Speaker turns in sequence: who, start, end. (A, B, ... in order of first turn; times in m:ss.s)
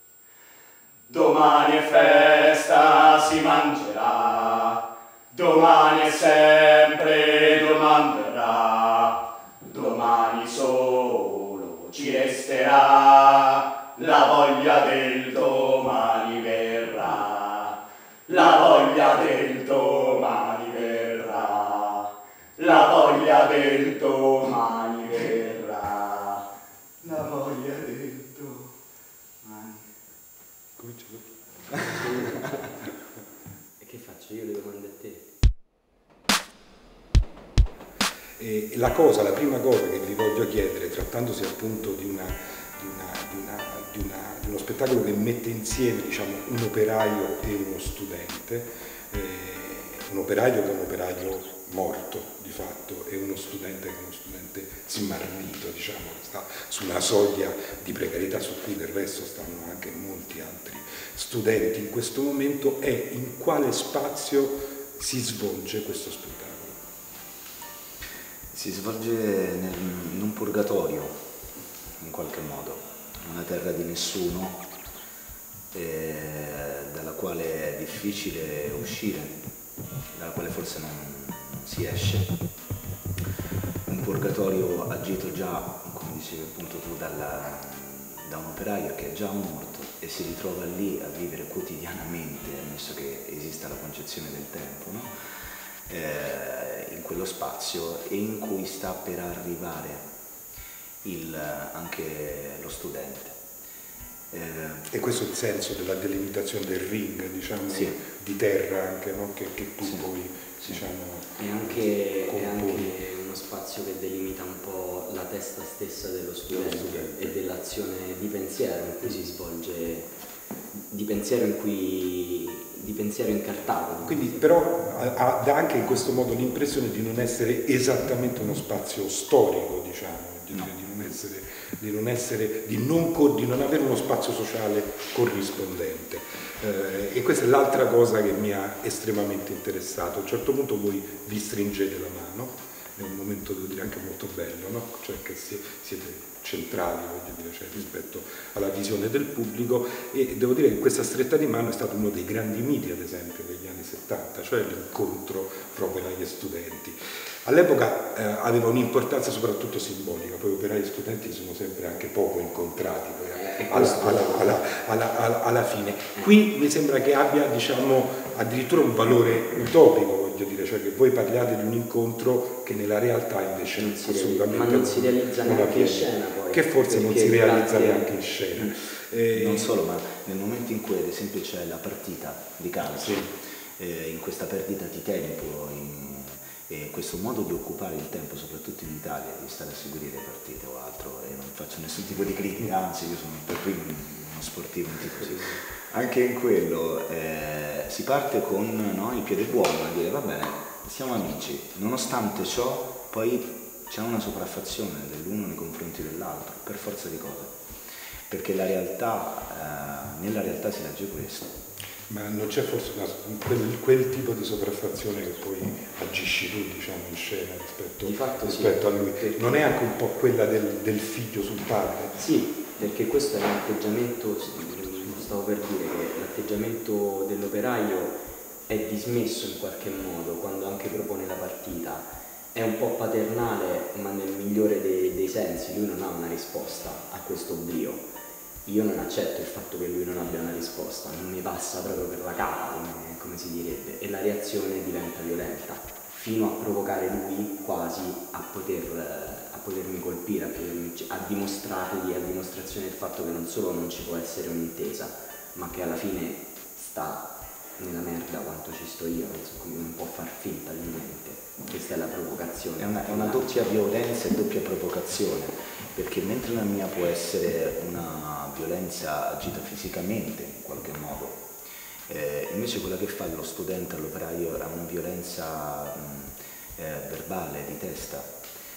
0:01.1-0:04.8 A
0:05.3-0:26.4 A
0:27.0-0:28.7 A
0:29.4-0:29.8 A
0:30.8-0:32.4 B
0:31.8-0:32.7 C
0:33.8-0:35.3 C
0:38.4-1:06.8 B
1:08.5-1:11.2 D
1:12.0-1:14.7 D
1:15.7-1:19.4 D
1:20.1-1:22.4 D
1:23.9-1:35.1 D
1:35.9-1:40.1 D
1:41.0-1:43.4 D
1:44.3-1:44.9 D
1:44.9-1:53.0 B
1:47.7-1:48.0 D
1:49.8-1:50.1 D
1:50.6-1:50.9 D
1:51.4-2:00.1 C
1:56.5-1:57.3 B
2:00.9-2:04.5 C
2:04.0-2:59.7 B
2:43.3-2:44.6 C
2:53.7-2:58.7 C
2:59.3-3:27.6 D
3:02.8-3:03.3 B
3:28.3-3:31.6 D
3:32.1-3:42.2 B
3:38.0-3:39.8 C
3:42.2-3:58.1 C
3:58.6-4:23.8 C
4:22.8-4:31.5 D
4:32.1-4:38.4 D